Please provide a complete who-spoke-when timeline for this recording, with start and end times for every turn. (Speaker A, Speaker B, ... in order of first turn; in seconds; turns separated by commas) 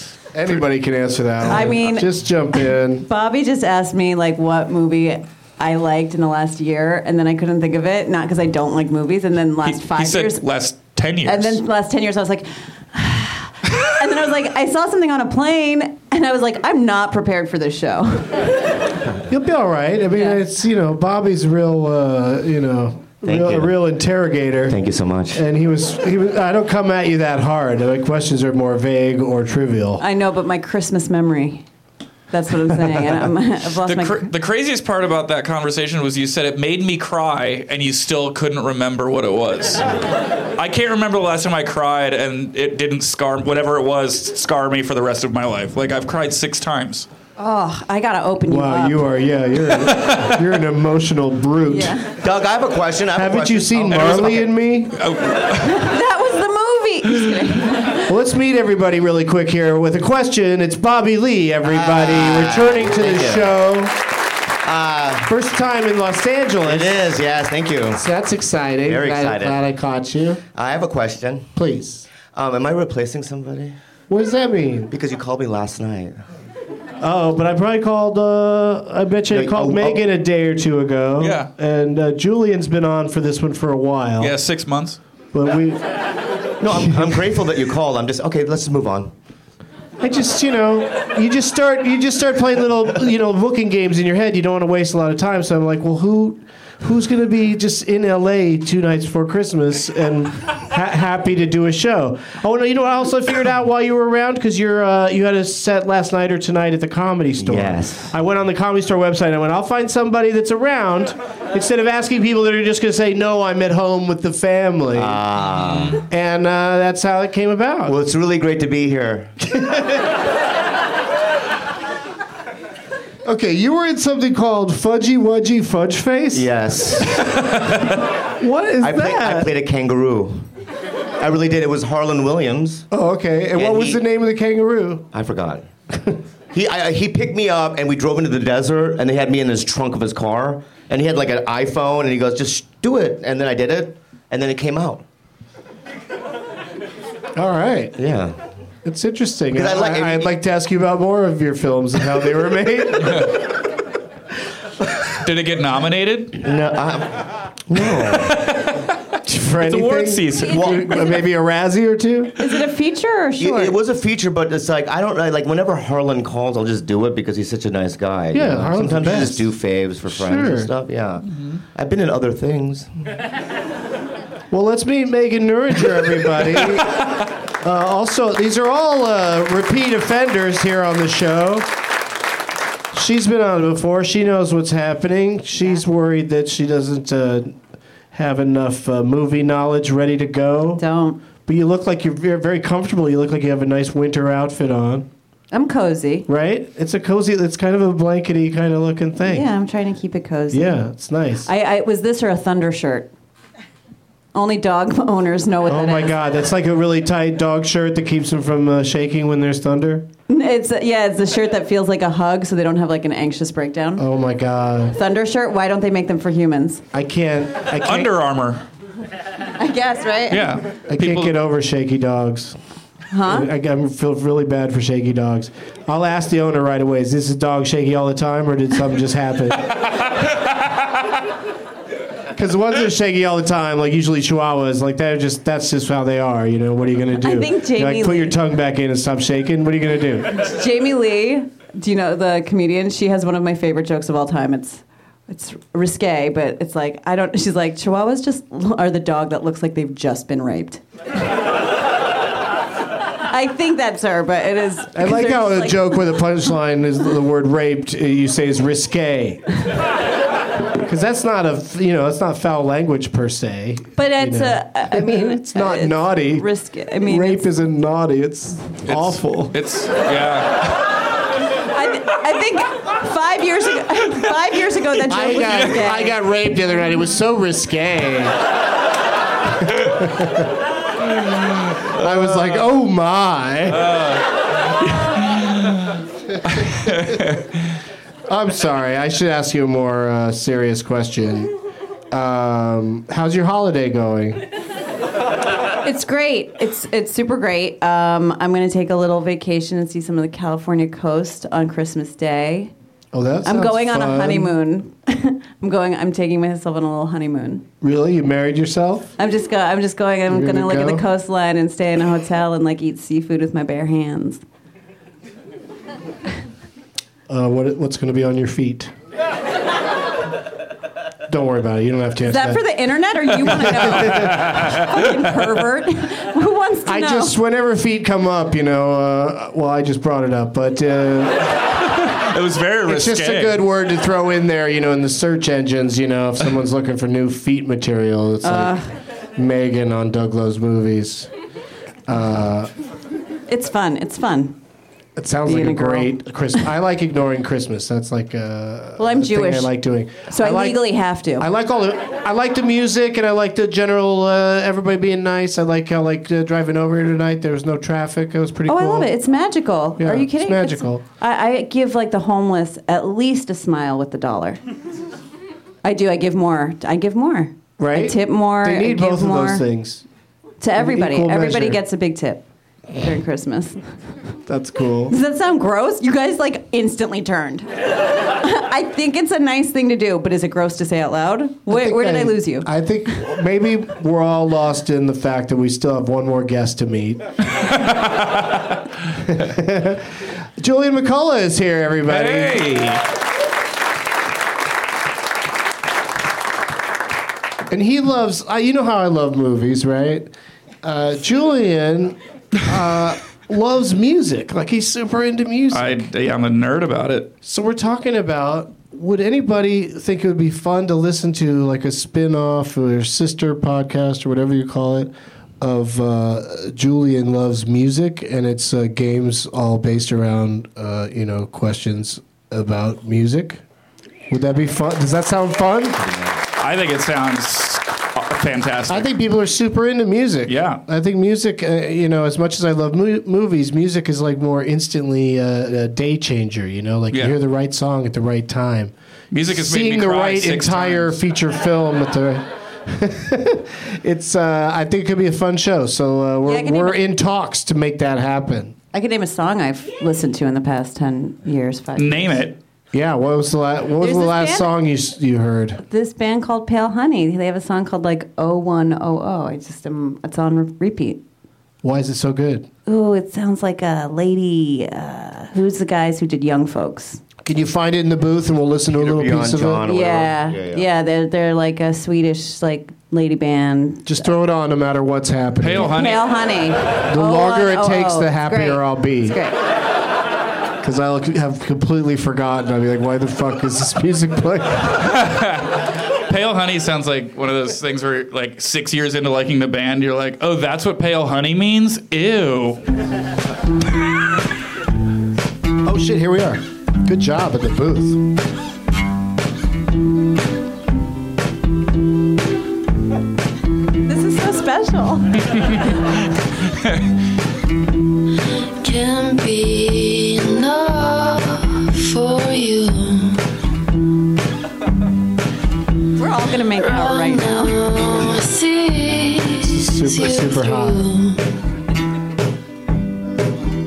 Speaker A: 0.3-3.0, Speaker B: 1.5-10.4, Speaker C: 9.6-11.6, Speaker B: 11.2-18.5, Speaker A: 19.3-24.8, Speaker B: 20.1-20.4, Speaker D: 23.2-23.7, Speaker D: 24.7-25.4, Speaker A: 25.3-30.0, Speaker B: 30.0-31.6, Speaker B: 32.3-34.3, Speaker C: 33.9-39.9, Speaker C: 40.6-47.1, Speaker B: 47.4-49.0, Speaker A: 48.5-52.0, Speaker C: 49.8-50.4, Speaker B: 51.7-52.1, Speaker D: 52.2-54.5, Speaker A: 53.1-55.0, Speaker C: 53.9-55.9, Speaker B: 55.6-58.0, Speaker A: 58.1-63.9, Speaker D: 61.6-63.6, Speaker D: 64.6-65.3, Speaker A: 65.2-67.0, Speaker D: 66.6-68.0, Speaker A: 67.9-70.4, Speaker D: 68.8-69.6, Speaker D: 70.5-71.5, Speaker A: 71.5-72.0, Speaker D: 72.3-73.8, Speaker A: 74.1-74.9, Speaker D: 74.9-76.2, Speaker A: 77.0-84.3, Speaker D: 79.3-80.0, Speaker C: 81.2-81.5, Speaker C: 84.2-85.0, Speaker A: 85.3-85.8, Speaker D: 86.6-89.1, Speaker A: 90.0-115.2, Speaker D: 107.4-108.1, Speaker D: 114.9-116.0, Speaker C: 115.3-116.0, Speaker A: 116.1-117.9, Speaker D: 117.9-119.3, Speaker A: 119.5-120.0, Speaker A: 123.2-127.3, Speaker D: 126.3-127.5, Speaker A: 128.4-129.5, Speaker D: 128.8-130.5, Speaker D: 131.2-132.9, Speaker A: 132.9-135.1, Speaker D: 133.5-134.0, Speaker D: 135.1-135.7, Speaker D: 136.5-145.0, Speaker A: 147.3-147.9, Speaker D: 148.0-148.4, Speaker A: 148.8-153.4, Speaker D: 149.5-150.3, Speaker C: 155.2-156.4, Speaker D: 156.4-158.5, Speaker C: 158.3-158.8, Speaker A: 159.2-162.3, Speaker C: 159.6-160.7, Speaker D: 160.5-161.1, Speaker B: 162.4-163.7, Speaker D: 163.4-172.9, Speaker A: 168.3-169.5, Speaker A: 170.1-170.7, Speaker A: 174.5-181.7, Speaker A: 182.9-187.6, Speaker A: 188.1-190.8, Speaker B: 190.8-191.2, Speaker A: 191.4-195.1, Speaker B: 195.5-196.3, Speaker A: 196.3-199.5, Speaker B: 199.2-200.8, Speaker A: 200.5-201.5, Speaker B: 201.4-203.1, Speaker B: 204.3-206.1, Speaker A: 205.7-210.1, Speaker B: 210.3-214.0, Speaker A: 214.0-214.9, Speaker B: 214.9-216.8, Speaker A: 216.9-218.1, Speaker C: 217.8-218.6, Speaker B: 219.6-220.5, Speaker C: 220.3-221.3, Speaker A: 220.9-222.6, Speaker B: 223.1-223.5, Speaker A: 223.2-229.7, Speaker A: 232.3-240.4, Speaker B: 237.2-238.4, Speaker B: 240.3-250.8, Speaker B: 253.3-256.2, Speaker A: 254.9-259.6, Speaker A: 260.8-266.5, Speaker B: 264.0-267.5, Speaker A: 267.0-269.5, Speaker C: 268.9-270.9, Speaker B: 271.7-276.2, Speaker A: 275.1-278.4, Speaker A: 279.6-280.5, Speaker A: 281.9-284.1, Speaker C: 283.7-286.0, Speaker A: 286.5-287.2, Speaker C: 286.5-287.4, Speaker A: 288.3-291.5, Speaker A: 292.1-294.4, Speaker B: 295.8-302.7, Speaker A: 303.1-304.5, Speaker B: 303.4-307.6, Speaker A: 307.8-309.1, Speaker B: 309.2-314.4, Speaker A: 310.3-311.0, Speaker A: 317.3-318.9, Speaker A: 321.3-322.6, Speaker B: 322.2-327.3, Speaker A: 323.6-324.7, Speaker C: 323.9-325.0, Speaker A: 326.9-331.5, Speaker C: 332.0-333.6, Speaker A: 332.9-338.8, Speaker B: 338.4-338.8, Speaker A: 339.4-341.3, Speaker A: 342.1-342.7, Speaker B: 343.5-344.6, Speaker A: 345.1-350.8, Speaker B: 345.4-346.2, Speaker B: 349.0-349.7, Speaker B: 350.3-351.5, Speaker A: 351.4-359.1, Speaker B: 358.7-364.6, Speaker A: 360.0-361.0, Speaker B: 365.8-369.6, Speaker A: 367.8-370.0, Speaker B: 370.6-372.4, Speaker A: 370.8-371.8, Speaker B: 373.0-373.8, Speaker A: 374.5-375.1, Speaker B: 375.1-377.7, Speaker B: 378.3-382.7, Speaker A: 381.7-387.2, Speaker C: 387.6-388.6, Speaker A: 389.2-390.0, Speaker A: 390.6-392.7, Speaker C: 392.1-393.0, Speaker A: 397.7-400.3, Speaker A: 400.8-406.0, Speaker C: 405.7-407.3, Speaker A: 407.4-423.6, Speaker A: 424.3-426.0, Speaker C: 426.6-429.1, Speaker A: 428.9-438.9, Speaker C: 430.5-430.8, Speaker C: 439.3-441.2, Speaker A: 439.5-448.8, Speaker B: 446.4-447.0, Speaker B: 448.9-452.4, Speaker C: 452.0-452.6, Speaker A: 452.9-455.8, Speaker B: 454.0-454.7, Speaker B: 455.8-461.2, Speaker A: 461.8-462.7, Speaker B: 462.9-467.2, Speaker A: 467.4-469.8, Speaker D: 468.9-470.9, Speaker B: 469.9-474.2, Speaker A: 474.1-475.9, Speaker C: 475.6-476.3, Speaker B: 475.9-479.6, Speaker A: 477.1-479.4, Speaker A: 480.8-485.0, Speaker C: 485.0-492.8, Speaker A: 495.8-498.2, Speaker B: 504.0-505.7, Speaker E: 508.8-513.4, Speaker B: 516.2-517.8, Speaker E: 516.8-521.4, Speaker A: 519.6-521.1